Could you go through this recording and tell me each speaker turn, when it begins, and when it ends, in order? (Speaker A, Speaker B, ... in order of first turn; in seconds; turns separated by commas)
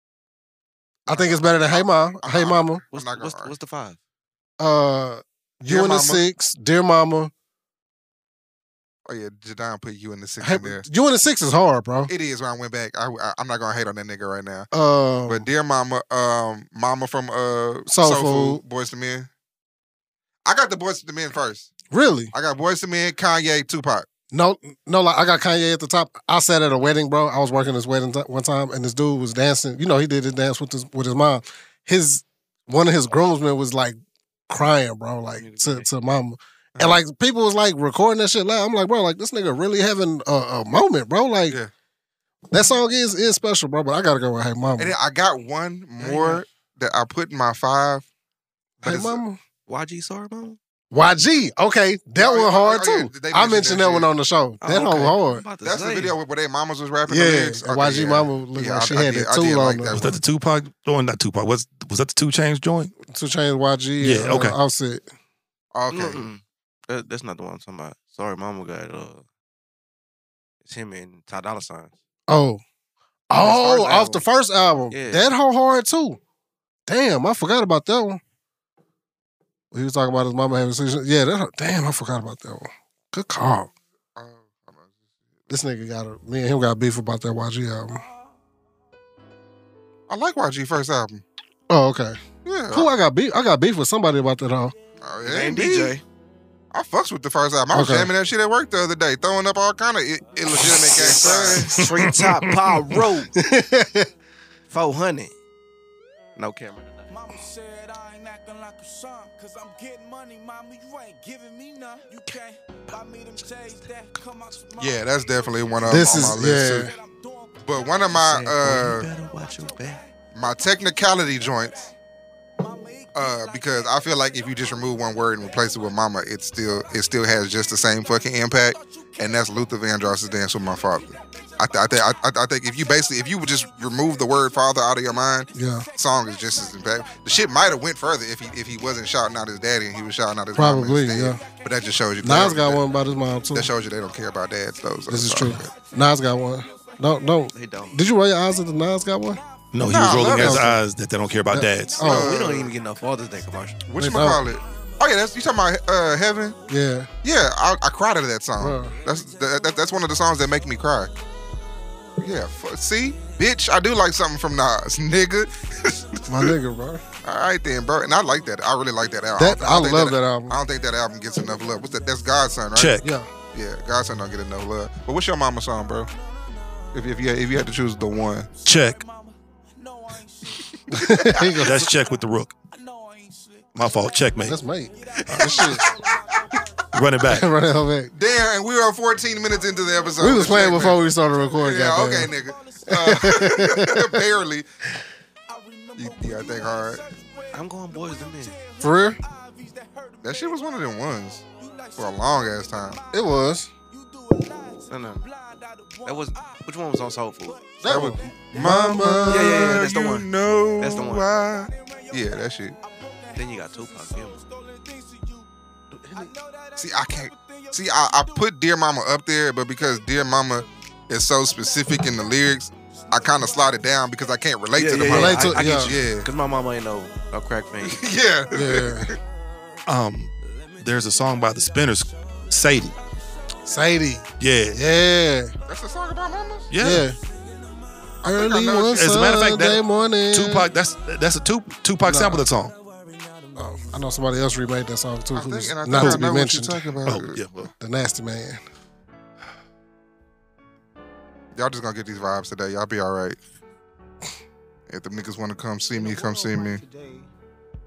Speaker A: 1.1-2.8, Speaker B: 1.1-3.5, Speaker C: 2.9-4.0, Speaker A: 4.6-7.3, Speaker B: 5.7-6.2, Speaker B: 9.1-10.8, Speaker A: 10.4-12.1, Speaker B: 12.1-14.7, Speaker A: 14.7-15.5, Speaker B: 15.2-19.3, Speaker A: 17.9-18.6, Speaker B: 20.4-21.7, Speaker A: 21.9-22.3, Speaker B: 22.3-24.1, Speaker A: 24.3-34.0, Speaker A: 34.5-41.6, Speaker C: 35.4-35.9, Speaker A: 42.5-44.9, Speaker B: 44.8-48.0, Speaker C: 46.0-46.4, Speaker B: 48.8-49.2, Speaker A: 48.8-49.4, Speaker C: 49.7-50.6, Speaker A: 50.9-55.4, Speaker B: 52.2-54.1, Speaker C: 54.6-56.1, Speaker B: 55.6-60.2, Speaker A: 57.0-60.0, Speaker D: 59.9-62.9, Speaker A: 63.0-65.0, Speaker D: 64.0-64.6, Speaker B: 65.7-66.2, Speaker C: 65.9-69.2, Speaker C: 70.6-71.9, Speaker A: 72.3-72.6, Speaker A: 73.3-76.2, Speaker B: 73.3-74.2, Speaker C: 74.9-75.3, Speaker A: 76.9-78.2, Speaker A: 79.7-83.7, Speaker B: 84.2-84.9, Speaker A: 85.5-88.0, Speaker B: 90.1-91.2, Speaker A: 91.7-92.2, Speaker B: 92.4-92.9, Speaker A: 92.7-94.7, Speaker B: 95.0-96.0, Speaker C: 95.2-96.0, Speaker B: 96.7-101.8, Speaker A: 97.7-98.1, Speaker C: 100.6-103.3, Speaker A: 101.7-104.1, Speaker C: 104.7-105.3, Speaker C: 106.3-107.0, Speaker E: 107.1-118.1, Speaker B: 114.8-116.9, Speaker A: 115.9-116.9, Speaker B: 117.6-119.1, Speaker C: 118.1-120.0, Speaker E: 119.3-121.9, Speaker B: 120.3-121.9, Speaker E: 122.6-126.0, Speaker B: 123.1-142.8, Speaker E: 126.8-127.2, Speaker E: 128.7-140.3, Speaker A: 135.5-135.9, Speaker A: 140.5-141.4, Speaker E: 141.1-150.2, Speaker A: 142.2-143.7, Speaker B: 143.5-145.6, Speaker A: 145.1-149.4, Speaker C: 147.5-148.0, Speaker D: 149.7-152.1, Speaker B: 149.8-150.7, Speaker A: 150.0-150.8, Speaker E: 151.2-155.5, Speaker A: 151.5-152.3, Speaker C: 152.0-153.8, Speaker B: 152.0-152.7, Speaker B: 153.8-156.6, Speaker A: 154.0-154.4, Speaker E: 156.0-156.6, Speaker A: 156.7-157.1, Speaker B: 157.2-161.1, Speaker A: 158.6-158.9, Speaker E: 158.8-161.1, Speaker E: 162.0-162.4, Speaker B: 162.2-166.5, Speaker A: 166.3-167.0, Speaker B: 167.2-173.0, Speaker A: 169.3-170.6, Speaker E: 171.3-172.3, Speaker D: 172.7-173.1, Speaker A: 173.0-173.3, Speaker B: 173.5-176.1, Speaker E: 176.1-187.4, Speaker B: 176.9-178.5, Speaker D: 178.6-179.0, Speaker A: 180.9-181.8, Speaker B: 180.9-181.6, Speaker D: 181.6-182.5, Speaker D: 183.7-184.6, Speaker A: 184.4-185.8, Speaker D: 185.2-185.7, Speaker D: 186.9-187.4, Speaker A: 187.2-188.1, Speaker B: 188.1-191.0, Speaker E: 189.3-193.8, Speaker A: 190.2-192.3, Speaker B: 191.6-194.7, Speaker A: 192.9-194.2, Speaker E: 195.5-208.7, Speaker B: 196.0-197.0, Speaker C: 197.5-198.5, Speaker A: 198.8-199.2, Speaker B: 200.2-201.4, Speaker B: 201.9-203.0, Speaker A: 203.1-203.7, Speaker C: 204.9-205.2, Speaker C: 206.0-207.6, Speaker A: 207.8-209.7, Speaker B: 207.9-212.8, Speaker C: 209.3-210.3, Speaker C: 210.8-211.2, Speaker E: 210.9-218.7, Speaker C: 213.3-214.4, Speaker B: 216.8-226.3, Speaker E: 219.7-220.7, Speaker E: 221.4-224.4, Speaker C: 224.7-228.0, Speaker A: 225.1-225.9, Speaker E: 225.8-229.8, Speaker B: 227.9-229.2, Speaker A: 228.5-229.1, Speaker D: 229.9-232.9, Speaker E: 230.4-233.3, Speaker A: 233.7-235.5, Speaker D: 234.4-234.8, Speaker B: 235.7-236.7, Speaker D: 236.7-237.1, Speaker A: 236.8-237.2, Speaker E: 237.1-238.8, Speaker A: 238.2-240.7, Speaker B: 238.3-239.0, Speaker D: 238.9-242.7, Speaker A: 242.0-242.5, Speaker E: 242.6-244.2, Speaker A: 243.5-246.9, Speaker B: 245.3-247.4, Speaker D: 245.9-246.3, Speaker D: 247.0-247.7, Speaker A: 247.8-248.6, Speaker B: 251.5-253.4, Speaker B: 254.9-256.8, Speaker E: 255.9-257.3